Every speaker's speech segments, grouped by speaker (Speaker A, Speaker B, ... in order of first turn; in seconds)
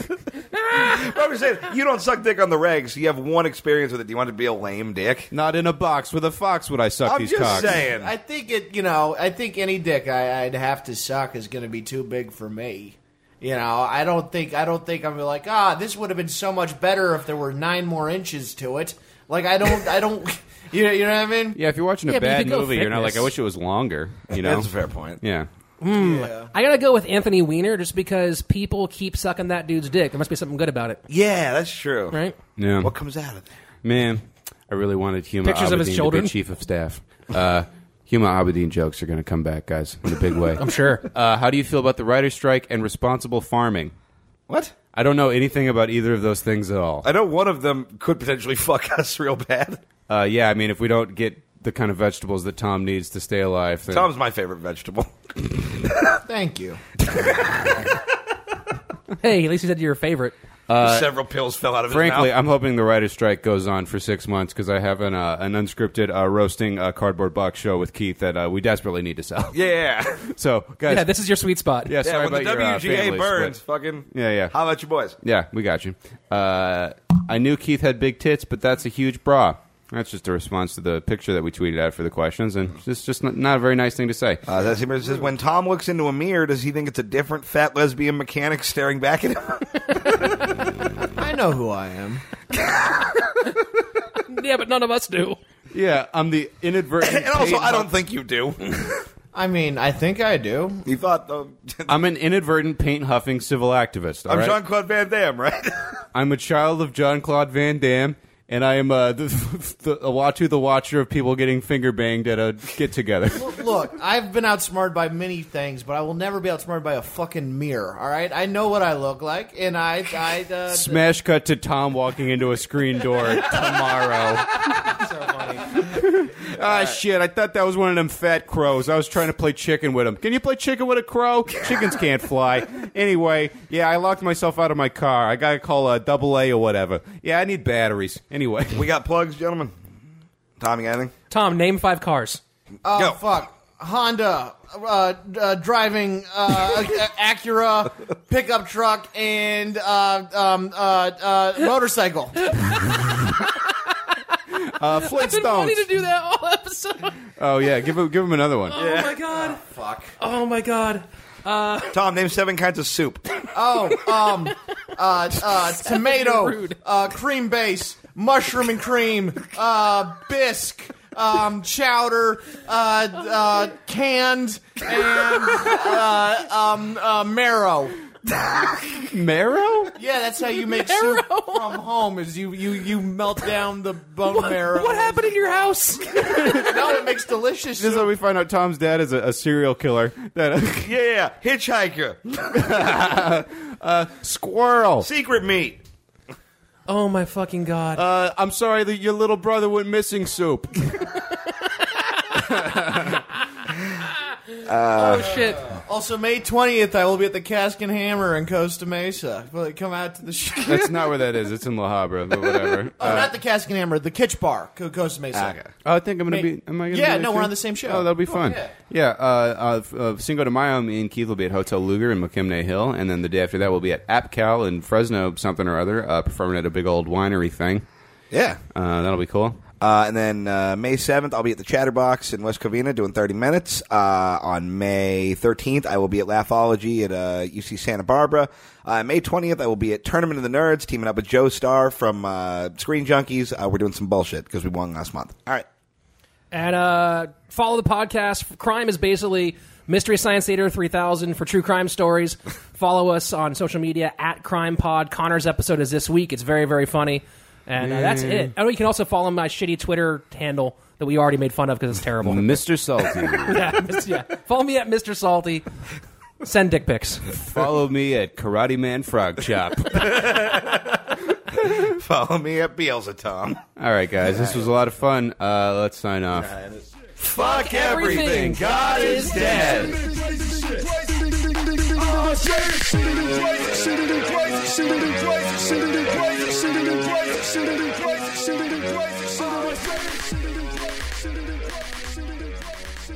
Speaker A: 0.7-5.3, 7.0-8.1, 24.3-25.2, 31.1-32.2, 32.8-33.5, 44.5-44.7, 47.0-49.8, 53.9-55.6, 60.8-62.3, 69.5-70.2, 72.0-75.2, 84.5-90.0, 97.0-98.8, 100.8-102.0, 104.3-106.0, 138.7-139.7, 140.6-141.1, 142.9-143.2, 158.8-159.2, 161.9-163.3, 190.8-192.9, 195.0-195.8, 204.6-205.4, 215.3-215.7, 228.3-228.6, 229.8-245.7, 269.9-273.6, 274.2-274.7, 276.3-279.9
Speaker B: 5.3-7.8, 21.5-24.7, 25.2-25.5, 32.6-32.9, 33.8-43.9, 44.9-47.0, 50.1-54.1, 60.7-61.1, 61.9-69.6, 70.3-71.1, 71.8-73.6, 74.1-74.5, 75.2-84.4, 95.7-97.9, 101.9-104.6, 106.1-113.6, 120.7-125.0, 125.8-138.9, 154.7-155.8, 157.4-158.8, 179.0-179.9, 187.8-190.9, 192.5-195.1, 197.9-201.2, 202.3-203.3, 210.6-213.3, 215.8-227.8, 228.7-229.6, 257.8-258.5, 262.2-263.6, 267.3-270.5, 273.8-276.5
Speaker C: 7.5-21.6, 25.9-26.5, 56.2-56.8, 91.1-92.2, 99.3-100.8, 113.3-121.0, 124.8-125.8, 142.8-152.6, 159.3-160.2, 163.5-178.0, 179.9-188.1, 205.1-211.1, 213.0-215.6, 216.2-218.7
Speaker D: 22.1-23.3, 25.8-31.0, 35.4-36.3, 40.6-41.0, 59.2-60.4, 70.9-72.0, 94.3-95.4, 141.3-142.4, 155.0-157.2, 158.7-159.6, 160.2-161.9, 165.8-166.8, 180.7-181.8, 184.3-187.1, 196.9-198.0, 204.9-205.7, 246.5-265.7, 266.4-267.3, 277.3-280.0
Speaker E: 279.2-292.6